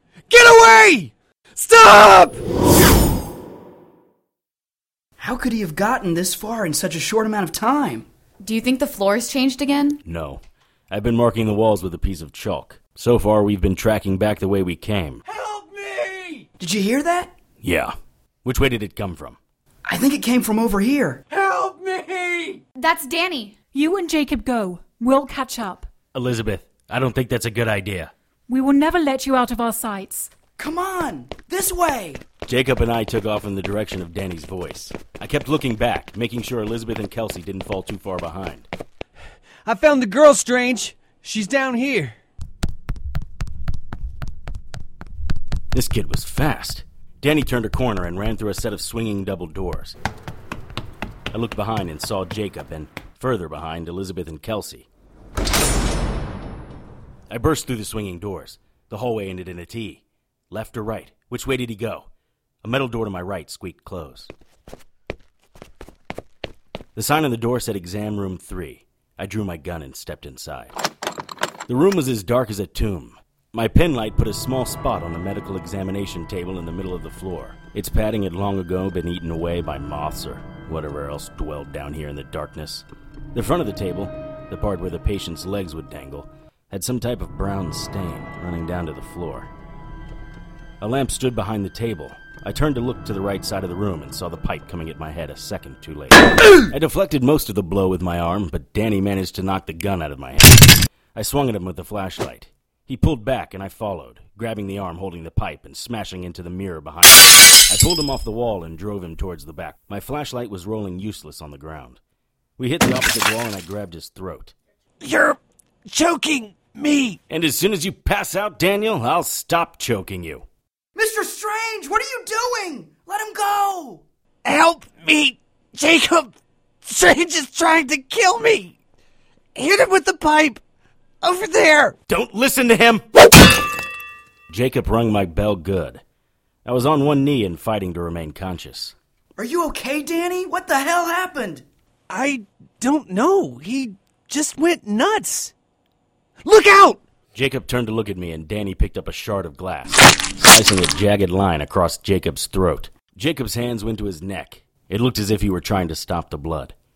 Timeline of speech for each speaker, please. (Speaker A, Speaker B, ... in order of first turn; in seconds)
Speaker A: 0.3-2.4, 15.2-16.5, 21.3-22.6, 39.7-42.2, 115.0-117.2, 124.5-128.7, 129.6-130.6, 131.2-132.0, 142.1-145.5, 146.4-147.0
Speaker B: 5.2-8.1, 16.6-17.3, 19.9-21.2, 30.6-32.2, 121.0-124.0, 139.4-141.7
Speaker C: 8.4-10.0, 22.8-23.6
Speaker D: 10.1-15.2, 17.6-17.9, 18.4-19.4, 26.1-28.1, 32.5-38.7, 45.7-50.0, 51.3-54.9, 57.3-62.1, 62.6-64.3, 67.0-70.8, 71.7-89.5, 90.8-112.0, 112.6-114.5, 117.3-120.5, 132.1-133.0, 134.5-136.0, 136.7-138.9, 147.3-156.7
Speaker E: 23.7-25.9, 28.5-30.3